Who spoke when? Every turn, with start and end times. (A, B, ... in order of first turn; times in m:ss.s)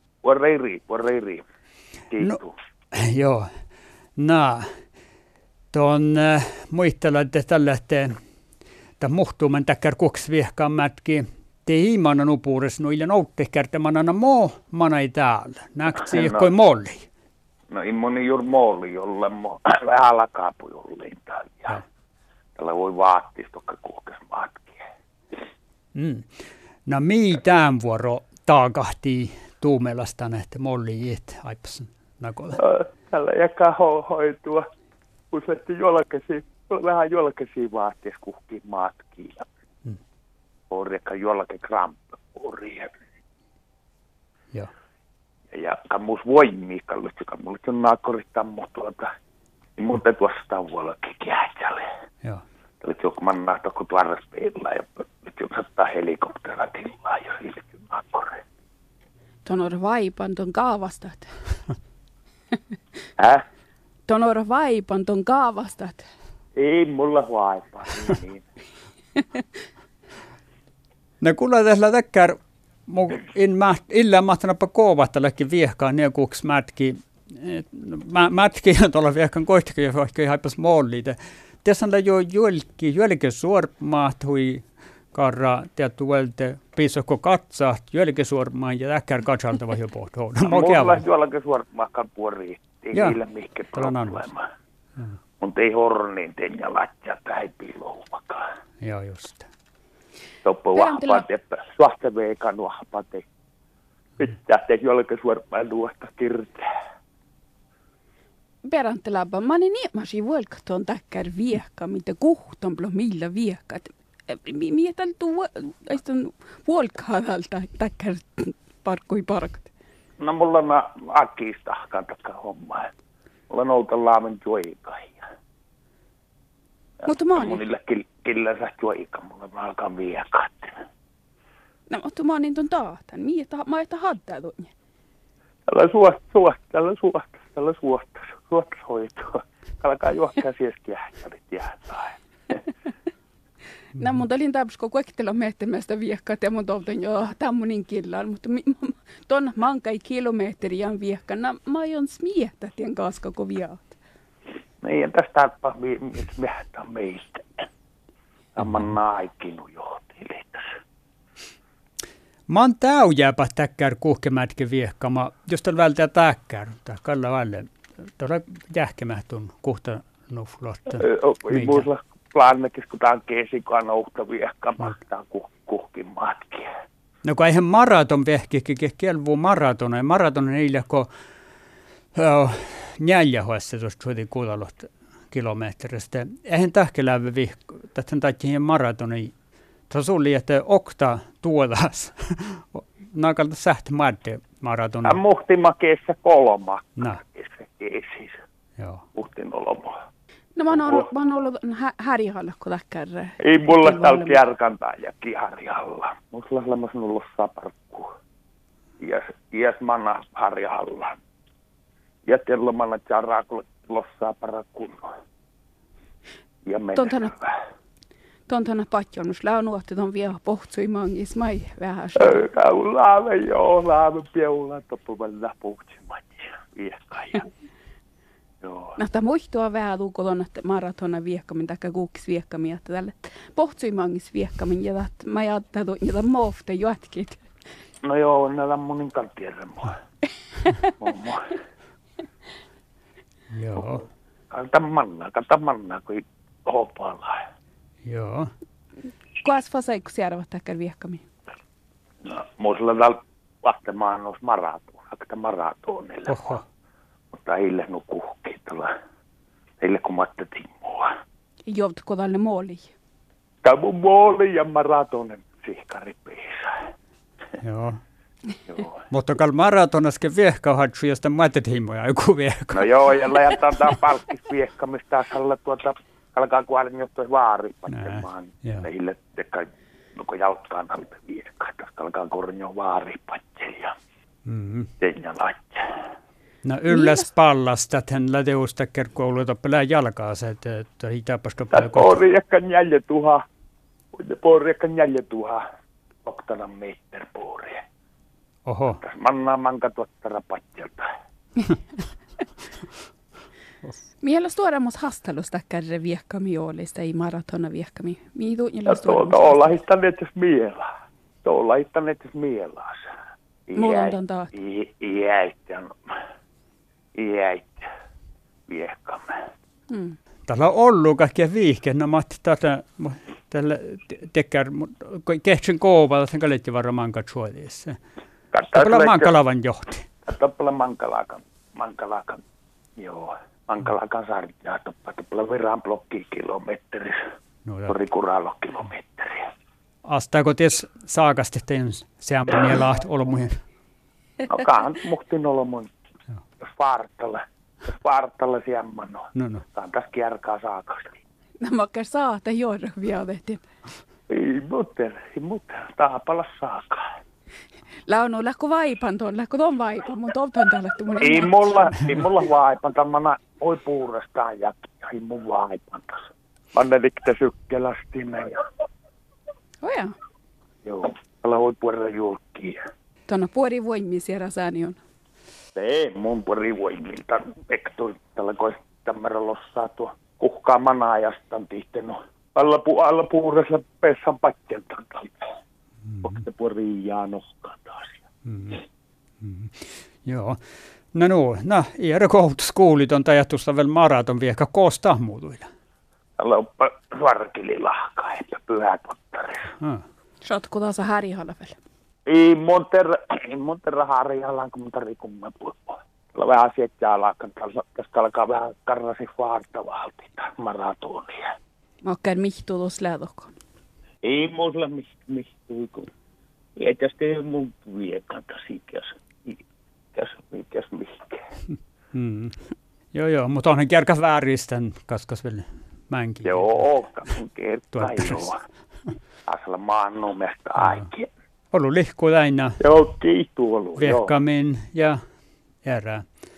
0:00.2-0:01.4 A
0:02.1-0:02.5 A
0:02.9-0:03.5 B
0:04.2-0:04.7 B
0:05.7-0:08.1 B
0:09.0-0:17.1 B
0:16.0-0:16.5 A
0:17.7-0:21.8 A
0:22.6-0:24.8 A
0:26.0-0:26.3 B
0:26.9-0:32.6 B
0:32.6-0:34.6 A
0:35.3-0:39.5 A
0:40.7-0:43.0 A
0:45.5-0:49.1 A
0:49.8-0:51.8 A
0:52.8-0:58.4 A
0:59.5-1:01.3 C
1:03.2-1:03.4 A
1:04.1-1:06.1 C
1:06.6-1:08.4 A
1:11.2-1:31.0 B
1:30.5-1:34.4 A
1:33.8-1:34.2 B
1:35.4-1:38.4 A
1:38.8-1:39.5 B
1:40.4-1:43.2 A
1:40.8-1:41.3 C
1:44.2-1:46.7 A
1:48.6-1:59.7 C
2:00.2-2:02.9 A
2:03.5-2:05.2 A
2:07.0-2:10.8 A
2:07.0-2:07.6 C
2:11.9-2:14.7 C
2:15.7-2:22.6 A
2:24.0-2:34.0 C
2:34.8-2:37.7 A
2:38.6-2:40.6 A
2:42.5-2:51.9 B
2:51.0-2:56.7 A
2:57.2-3:01.1 B
3:02.2-3:09.3 B
3:09.9-3:15.2 B
3:15.0-3:18.4 A
3:18.8-3:19.0 B
3:19.2-3:20.0 A
3:20.6-3:24.4 C
3:20.7-3:21.1 A
3:23.4-3:28.1 A
3:29.0-3:31.2 A
3:32.3-3:35.1 A
3:36.6-3:37.5 A
3:37.0-3:37.3 C
3:38.5-3:42.4 C
3:42.2-3:47.5 A
3:48.6-3:49.0 A
3:49.0-3:57.5 C
3:58.0-4:00.0 A
4:01.0-4:01.6 A
4:03.5-4:04.0 B
4:04.5-4:07.4 A
4:08.0-4:08.5 B
4:09.4-4:11.2 C
4:12.2-4:16.6 A
4:16.3-4:16.6 B
4:17.3-4:18.9 A
4:19.8-4:21.1 A
4:21.7-4:22.9 C
4:23.6-4:26.8 A
4:27.6-4:28.0 B
4:29.1-4:32.9 B
4:32.7-4:44.0 A
4:37.9-4:38.9 B
4:44.5-4:44.9 B
4:45.0-4:45.8 A
4:46.6-4:52.2 B
4:46.9-4:47.3 C
4:51.7-4:53.4 A
4:54.1-4:55.6 A
4:56.2-4:57.8 A
4:58.7-4:59.0 B
4:59.0-5:01.1 A
5:04.2-5:09.8 C
5:08.9-5:10.9 A
5:11.4-5:13.1 A
5:13.7-5:16.0 A
5:13.8-5:14.5 C
5:17.2-5:17.9 A
5:18.7-5:19.4 A
5:19.9-5:20.2 C
5:20.5-5:28.0 B
5:28.5-5:29.3 A
5:28.7-5:30.1 B
5:30.3-5:32.4 A
5:33.0-5:37.2 A
5:37.6-5:38.0 B
5:37.9-5:39.5 A
5:40.1-5:43.6 B
5:44.5-5:45.9 A
5:46.6-5:51.2 A
5:49.4-5:49.6 B
5:51.6-5:53.7 C
5:54.3-5:57.0 A
5:58.1-6:02.0 C
6:01.2-6:08.6 A
6:09.8-6:10.2 C
6:10.8-6:12.8 A
6:13.3-6:15.0 C
6:15.8-6:25.4 A
6:26.2-6:28.2 A
6:28.4-6:28.8 B
6:29.4-6:30.6 B
6:31.1-6:35.7 B
6:36.4-6:39.7 A
6:39.8-6:40.0 B
6:40.4-6:41.8 C
6:42.3-6:51.6 A
6:52.0-6:53.5 C
6:54.2-6:56.1 A
6:56.8-6:59.6 A
7:00.1-7:01.4 A
7:02.1-7:02.6 B
7:03.1-7:06.8 B
7:06.4-7:08.6 A
7:08.0-7:08.5 B
7:09.5-7:11.3 A
7:10.8-7:11.1 B
7:11.7-7:12.8 B
7:12.8-7:14.4 A
7:14.0-7:15.2 B
7:15.8-7:16.2 B